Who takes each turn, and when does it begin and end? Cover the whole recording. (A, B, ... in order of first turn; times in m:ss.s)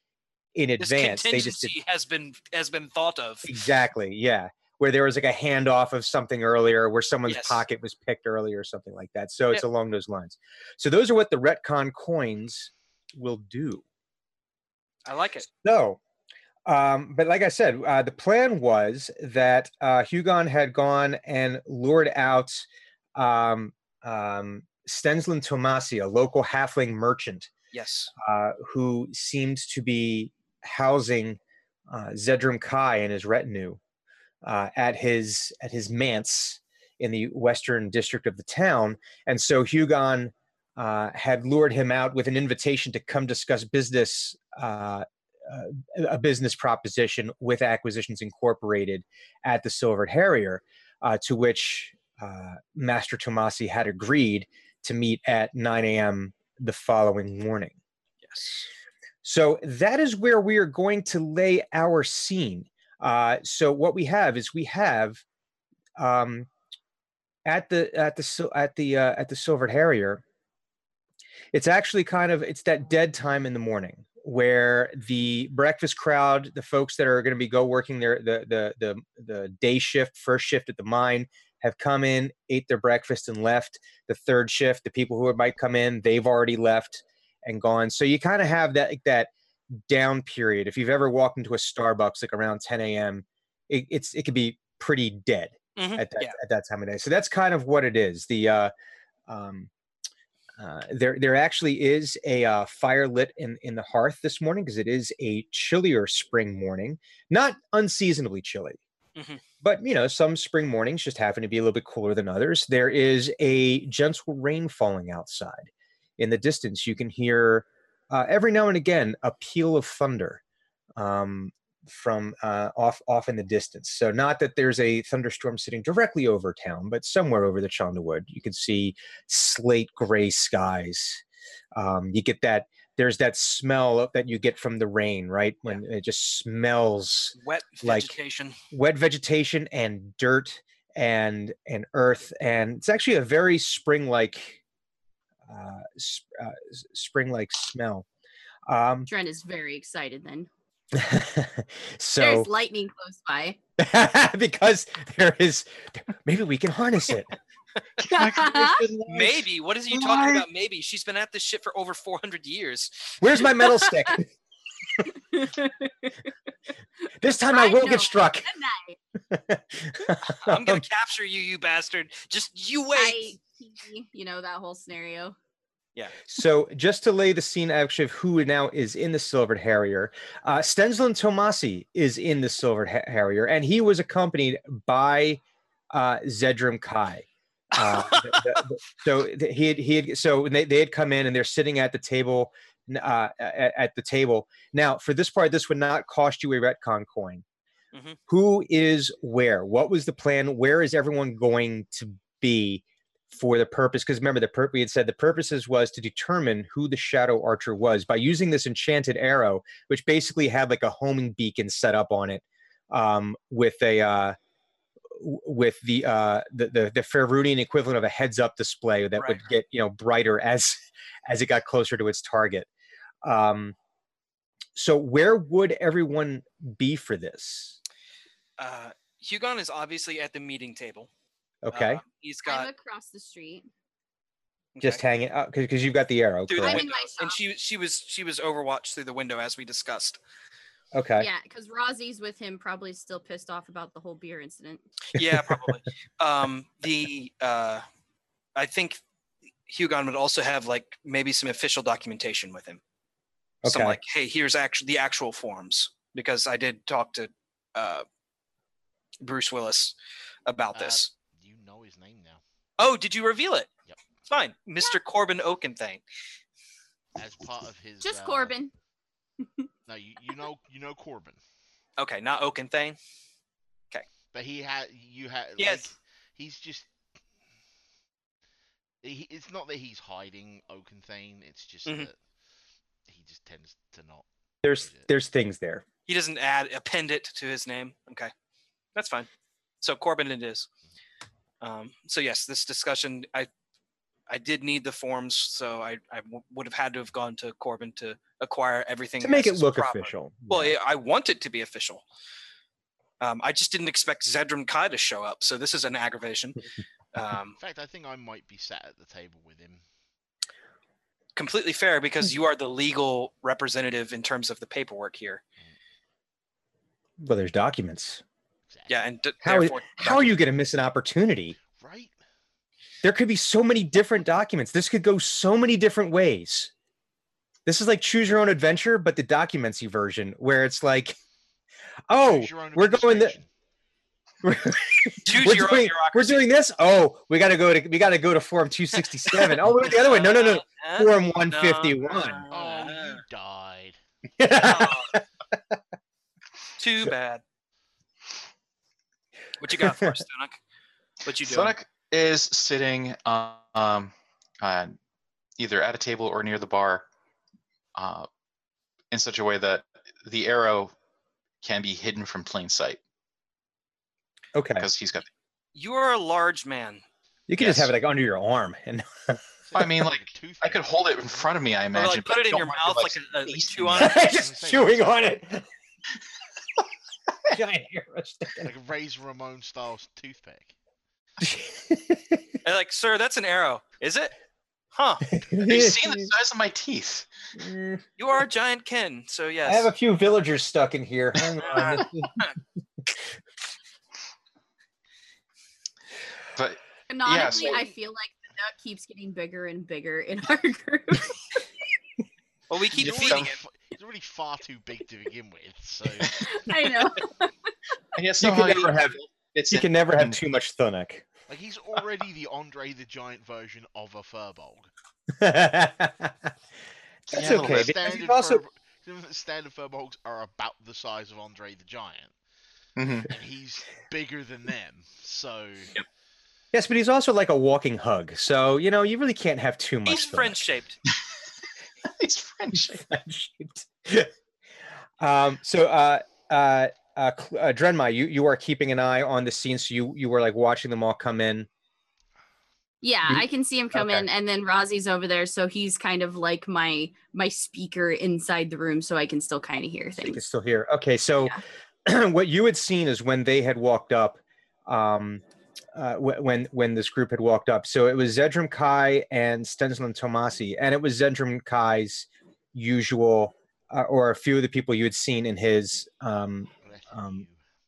0:00.5-0:01.7 A
0:00.8-0:03.5 B
0:03.4-0:13.8 A
0:07.2-0:07.6 B
0:15.0-0:15.5 B
0:15.6-0:16.0 A
0:16.6-0:27.5 A
0:27.7-0:28.1 B
0:28.2-0:33.8 A
0:34.4-0:57.7 A
0:58.2-0:58.7 B
0:59.2-1:05.2 A
1:06.0-1:06.5 A
1:07.4-1:10.2 A
1:11.5-1:38.7 A
1:35.8-1:36.4 B
1:39.3-1:39.7 A
1:40.6-1:48.8 A
1:49.2-1:49.4 B
1:49.6-2:00.4 A
2:01.0-2:11.2 A
2:11.7-2:18.1 A
2:17.4-2:18.6 B
2:18.7-2:24.6 A
2:25.5-2:28.0 A
2:28.7-2:29.1 A
2:29.1-2:30.5 C
2:30.9-2:32.5 A
2:32.2-2:33.6 C
2:33.8-2:37.3 A
2:38.0-2:38.8 C
2:38.2-2:40.4 A
2:39.1-2:43.9 B
2:43.2-2:44.3 A
2:45.0-2:46.1 C
2:47.2-2:48.5 A
2:47.4-2:49.0 C
2:49.3-2:50.8 A
2:50.3-2:53.4 B
2:52.9-2:55.4 C
2:56.3-3:17.4 A
3:07.8-3:08.6 B
3:17.9-3:18.2 B
3:18.3-3:34.4 A
3:35.1-3:42.7 A
3:39.2-3:39.5 B
3:43.2-3:43.7 A
3:44.7-3:47.8 A
3:48.6-3:51.1 B
3:51.6-3:52.0 A
3:51.7-3:52.7 B
3:52.4-3:53.7 C
3:54.7-3:55.0 B
3:54.8-3:56.8 A
3:56.5-4:00.2 B
3:56.6-3:57.4 C
4:00.9-4:01.3 A
4:01.2-4:04.8 C
4:05.1-4:07.8 B
4:05.2-4:05.6 A
4:08.6-4:09.0 B
4:09.7-4:12.8 B
4:13.6-4:14.0 A
4:13.6-4:18.0 B
4:19.2-4:19.9 B
4:20.4-4:21.1 B
4:20.7-4:22.4 D
4:22.8-4:23.7 B
4:24.3-4:26.0 B
4:27.2-4:28.5 D
4:28.0-4:28.7 C
4:29.9-4:31.4 D
4:32.0-4:33.0 B
4:34.3-4:36.9 D
4:35.6-4:35.9 B
4:39.0-4:42.2 D
4:43.0-4:45.1 D
4:44.6-4:45.8 A
4:46.1-4:48.3 B
4:48.9-4:49.3 B
4:49.8-4:50.7 B
4:51.6-4:53.5 B
4:54.3-5:02.0 B
4:59.2-5:00.7 A
5:03.2-5:07.6 B
5:07.6-5:09.8 D
5:11.4-5:15.4 B
5:17.2-5:18.2 A
5:18.7-5:19.0 D
5:18.9-5:20.4 B
5:19.4-5:21.6 A
5:21.7-5:22.2 D
5:23.0-5:26.7 A
5:27.6-5:31.2 A
5:32.1-5:33.4 A
5:32.2-5:33.5 D
5:34.4-5:42.4 A
5:35.2-5:36.4 B
5:39.1-5:43.2 B
5:42.5-5:44.0 D
5:44.4-5:45.8 A
5:44.6-5:45.2 B
5:46.8-5:47.4 B
5:49.6-5:50.6 B
5:49.8-5:50.1 A
5:51.2-5:51.8 B
5:51.4-5:54.9 E
5:55.6-5:57.0 E
5:58.0-5:58.3 E
5:59.1-6:00.9 E
6:01.6-6:03.0 E
6:04.5-6:04.9 A
6:04.8-6:05.3 E
6:05.7-6:07.0 B
6:07.5-6:09.4 A
6:07.6-6:07.9 E
6:09.6-6:11.7 D
6:09.8-6:14.1 E
6:11.9-6:14.2 B
6:13.8-6:15.3 D
6:14.0-6:15.6 A
6:17.5-6:18.7 A
6:18.6-6:20.8 D
6:21.4-6:22.4 A
6:22.6-6:24.3 B
6:24.9-6:25.3 B
6:25.3-6:26.3 A
6:25.6-6:27.3 E
6:27.6-6:28.0 A
6:28.2-6:29.9 B
6:29.6-6:32.4 A
6:31.7-6:32.5 B
6:36.6-6:37.8 E
6:37.1-6:41.6 C
6:42.7-6:43.6 B
6:42.9-6:46.4 D
6:43.2-6:43.5 E
6:46.4-6:47.5 C
6:48.2-6:50.4 E
6:48.4-6:49.2 A
6:49.7-6:51.2 A
6:51.5-6:54.9 D
6:55.3-6:56.3 A
6:57.3-7:02.4 D
6:57.3-6:58.2 E
6:57.3-6:58.6 A
7:03.0-7:03.3 E
7:03.2-7:05.9 D
7:06.7-7:10.6 A
7:10.0-7:11.0 B
7:12.0-7:13.0 E
7:12.7-7:14.3 A
7:15.2-7:21.7 A
7:23.0-7:30.4 C
7:23.3-7:24.3 A
7:30.2-7:35.4 A
7:35.9-7:47.4 A
7:46.8-7:47.6 D